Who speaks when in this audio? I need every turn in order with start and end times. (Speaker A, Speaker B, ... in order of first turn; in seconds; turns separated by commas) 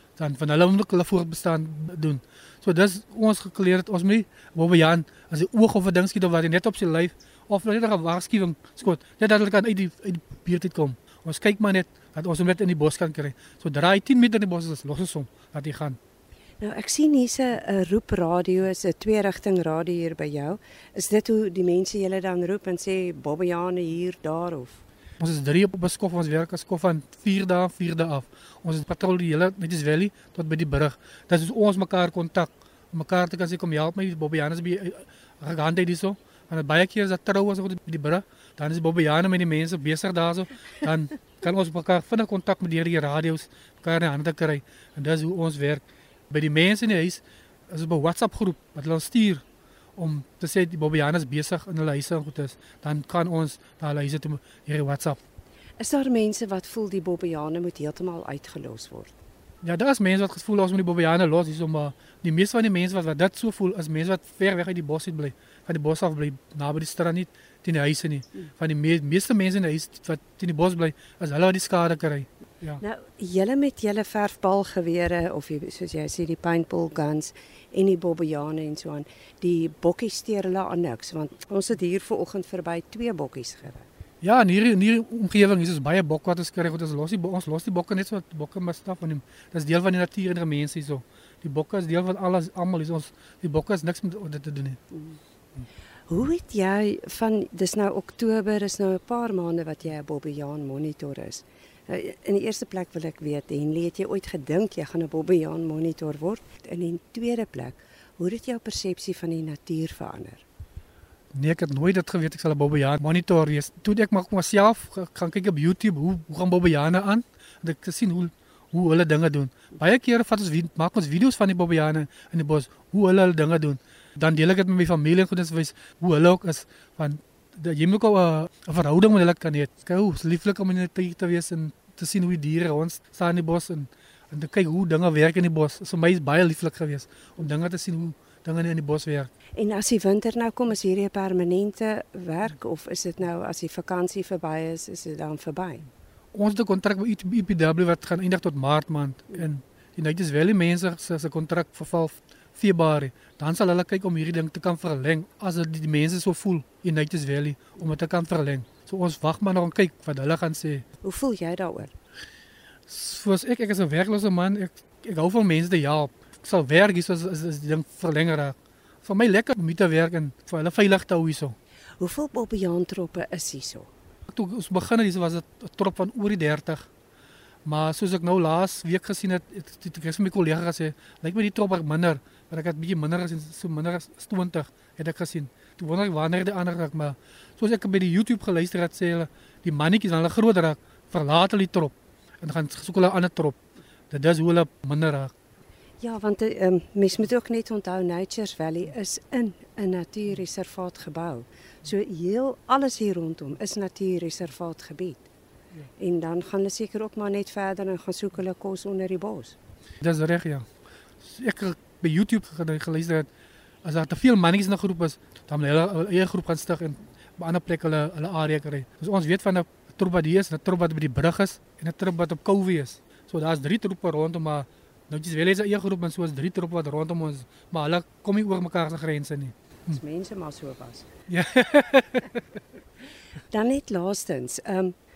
Speaker A: 0.2-16.0, Speaker B: 16.6-24.8, Speaker A: 25.2-49.4, Speaker A: 50.0-55.2, Speaker B: 55.8-59.1, Speaker A: 59.6-72.8, Speaker B: 72.8-83.8, Speaker A: 84.2-94.8, Speaker B: 94.9-95.2, Speaker B: 96.1-110.4, Speaker A: 111.3-139.3, Speaker B: 139.6-145.8, Speaker A: 146.3-160.8, Speaker B: 161.0-161.9, Speaker A: 162.9-171.6, Speaker B: 172.0-173.9, Speaker A: 174.3-176.9, Speaker A: 177.7-195.3, Speaker B: 196.0-205.3, Speaker B: 206.0-209.6, Speaker A: 210.0-210.7, Speaker A: 211.2-213.3, Speaker A: 213.8-230.0, Speaker B: 229.9-231.1, Speaker A: 231.3-232.4, Speaker B: 233.5-234.9